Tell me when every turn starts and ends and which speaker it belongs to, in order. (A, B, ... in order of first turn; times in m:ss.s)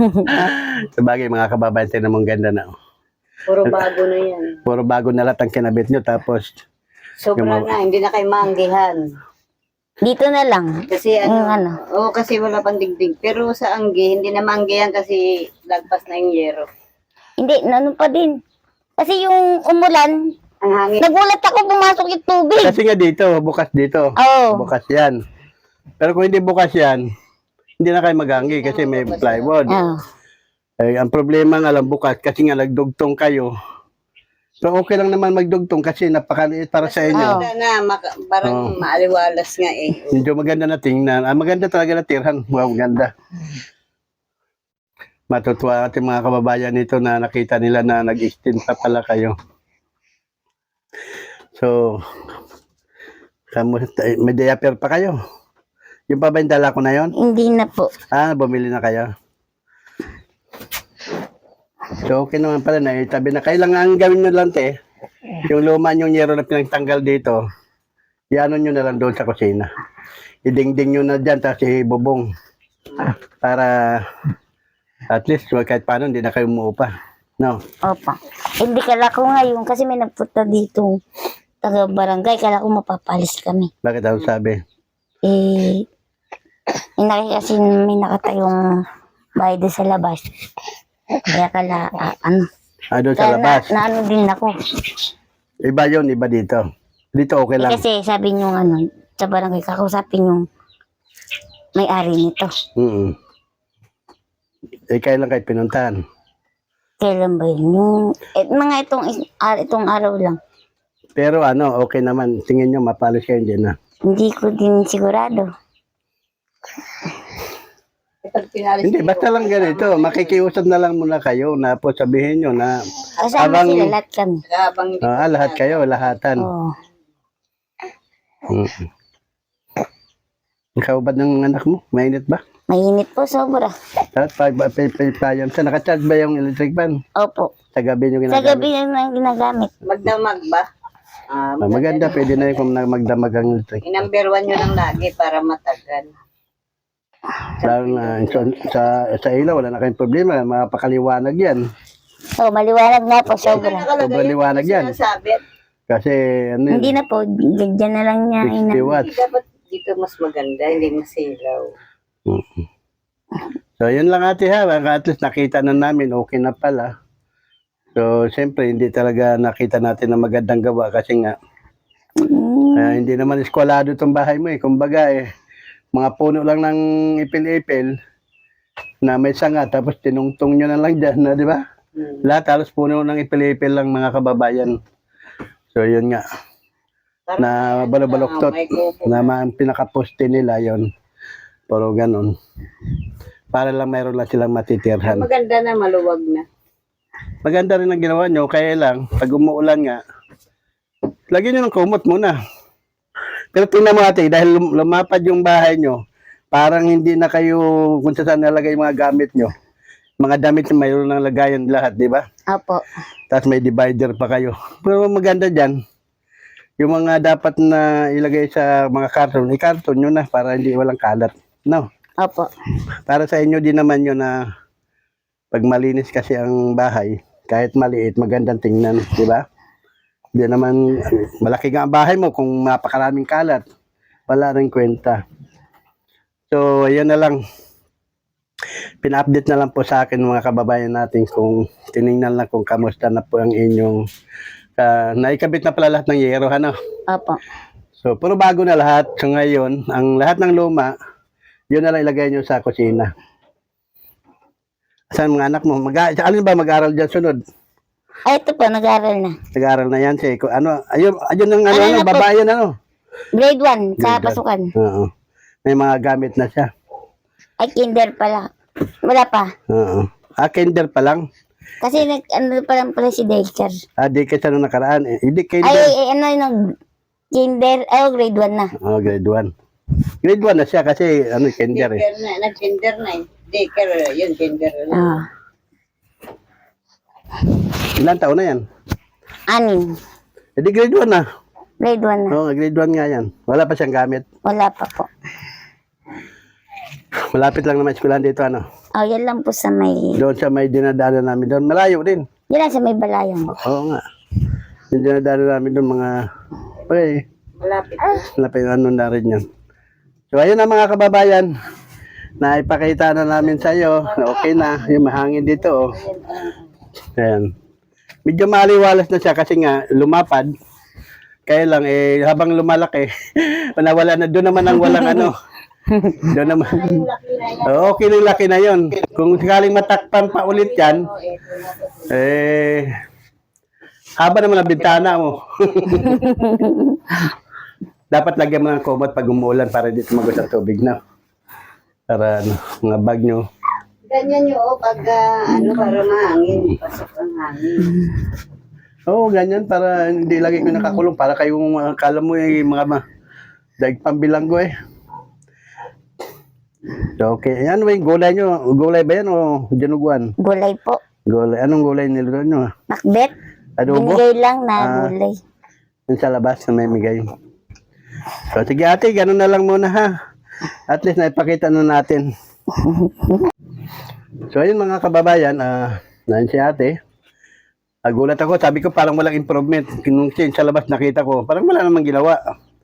0:00.2-0:02.7 A
0:03.5-0:04.6 B
0:04.6-0:06.5 A
0:07.2-0:09.0 B
0:07.4-0:07.7 A
0:10.0-0:10.7 C
0:10.9-0:16.7 B
0:11.2-0:11.7 C
0:17.4-0:18.3 C
0:19.0-0:20.1 C
0:20.6-0:21.1 B
0:21.0-0:22.8 C
0:22.6-0:25.2 A
0:24.2-0:24.6 C
0:26.0-0:27.0 A
0:27.8-0:29.7 A
0:28.3-0:29.7 B
0:29.7-0:30.0 C
0:30.8-0:33.5 A
0:34.6-0:37.4 A
0:36.8-0:40.2 B
0:37.1-0:37.4 C
0:38.4-0:38.8 A
0:40.1-0:43.1 A
0:45.3-0:49.3 A
0:51.6-0:52.0 A
0:53.5-0:55.2 A
0:56.1-0:57.1 A
0:57.2-0:57.9 C
0:58.1-0:59.1 A
1:02.0-1:04.7 A
1:05.4-1:07.4 A
1:08.3-1:09.7 A
1:10.4-1:12.2 A
1:13.4-1:14.0 A
1:15.1-1:17.6 A
1:17.9-1:20.9 C
1:21.6-1:23.7 C
1:23.8-1:24.6 A
1:25.2-1:25.8 C
1:27.0-1:28.6 C
1:29.4-1:30.2 C
1:31.3-1:32.4 C
1:32.9-1:33.7 A
1:33.2-1:34.5 C
1:35.6-1:36.6 A
1:37.1-1:37.8 A
1:37.6-1:40.4 C
1:41.8-1:42.5 C
1:42.8-1:43.1 A
1:44.9-1:46.0 A
1:47.0-1:50.4 C
1:51.2-1:53.7 A
1:54.1-1:55.5 C
1:58.2-2:00.4 B
1:58.8-2:02.8 A
2:03.2-2:03.7 B
2:03.2-2:04.4 C
2:03.3-2:03.9 A
2:04.5-2:06.0 B
2:05.0-2:06.5 A
2:06.4-2:06.7 C
2:08.5-2:08.8 A
2:10.8-2:12.4 A
2:12.7-2:13.7 C
2:14.1-2:17.0 A
2:17.2-2:17.5 C
2:17.7-2:18.7 A
2:18.3-2:19.7 C
2:19.8-2:20.7 B
2:21.3-2:22.3 B
2:21.6-2:23.8 A
2:23.8-2:26.1 B
2:27.6-2:28.6 B
2:27.6-2:31.6 A
2:32.4-2:33.9 C
2:33.4-2:35.4 B
2:33.6-2:34.9 A
2:35.9-2:36.9 A
2:36.7-2:39.0 C
2:38.4-2:39.1 A
2:38.9-2:41.7 B
2:43.8-2:46.9 A
2:48.0-2:51.3 A
2:52.2-2:53.0 C
2:52.8-2:55.2 A
2:55.9-2:57.9 A
2:59.0-3:01.6 A
3:02.2-3:04.8 A
3:05.7-3:06.2 A
3:07.3-3:09.3 B
3:07.4-3:10.8 A
3:11.7-3:12.3 A
3:13.5-3:15.3 A
3:15.0-3:16.4 B
3:17.4-3:20.0 A
3:21.3-3:22.3 A
3:23.5-3:26.0 A
3:26.5-3:29.5 A
3:30.2-3:32.2 A
3:32.5-3:32.8 C
3:33.3-3:35.7 A
3:36.8-3:41.8 A
3:42.2-3:42.5 C
3:43.0-3:44.4 A
3:45.5-3:49.4 A
3:50.3-3:53.6 A
3:54.3-3:55.2 A
3:56.5-3:57.4 A
3:59.0-4:04.0 A
4:04.8-4:06.7 A
4:07.1-4:07.4 C
4:08.0-4:10.9 A
4:11.7-4:13.1 A
4:15.1-4:17.4 A
4:18.3-4:19.3 C
4:19.5-4:22.7 A
4:21.7-4:22.2 C
4:23.3-4:24.7 C
4:24.0-4:25.1 A
4:25.6-4:26.7 A
4:27.6-4:28.4 C
4:29.0-4:29.5 C
4:29.7-4:31.2 A
4:31.8-4:33.8 C
4:34.0-4:35.9 A
4:35.6-4:36.5 C
4:37.3-4:38.7 C
4:38.8-4:39.5 A
4:40.2-4:42.0 A
4:41.7-4:45.2 B
4:44.9-4:45.2 C
4:48.0-4:48.6 A
4:49.5-4:49.9 C
4:50.6-4:51.2 A
4:51.8-4:52.4 C
4:52.3-4:54.2 A
4:54.4-4:55.1 C
4:57.3-4:58.6 A
4:59.0-5:00.2 C
5:00.2-5:02.2 A
5:02.5-5:03.5 C
5:03.5-5:04.0 A
5:04.9-5:06.2 A
5:06.9-5:07.2 A
5:07.6-5:08.3 B
5:08.3-5:09.4 A
5:10.3-5:11.5 A
5:12.4-5:15.9 A
5:13.6-5:15.0 B
5:15.6-5:16.6 B
5:17.2-5:17.5 A
5:18.2-5:20.5 A
5:21.5-5:25.3 A
5:24.7-5:25.3 C
5:25.9-5:26.2 C
5:26.3-5:27.0 A
5:26.3-5:27.9 B
5:27.6-5:31.1 A
5:30.2-5:32.3 B
5:32.1-5:32.9 A
5:34.2-5:36.3 A
5:36.1-5:37.0 C
5:38.1-5:41.0 A
5:42.1-5:43.4 A
5:44.1-5:48.1 B
5:49.1-5:53.0 A
5:53.8-5:54.7 A
5:57.2-6:00.3 A
6:00.4-6:01.0 C
6:01.3-6:02.7 A
6:02.9-6:03.3 C
6:03.8-6:04.2 A
6:03.9-6:05.4 C
6:04.8-6:05.1 A
6:06.1-6:07.2 A
6:08.5-6:10.1 A
6:10.9-6:12.3 A
6:12.8-6:13.5 C
6:14.5-6:16.9 A
6:18.0-6:22.4 A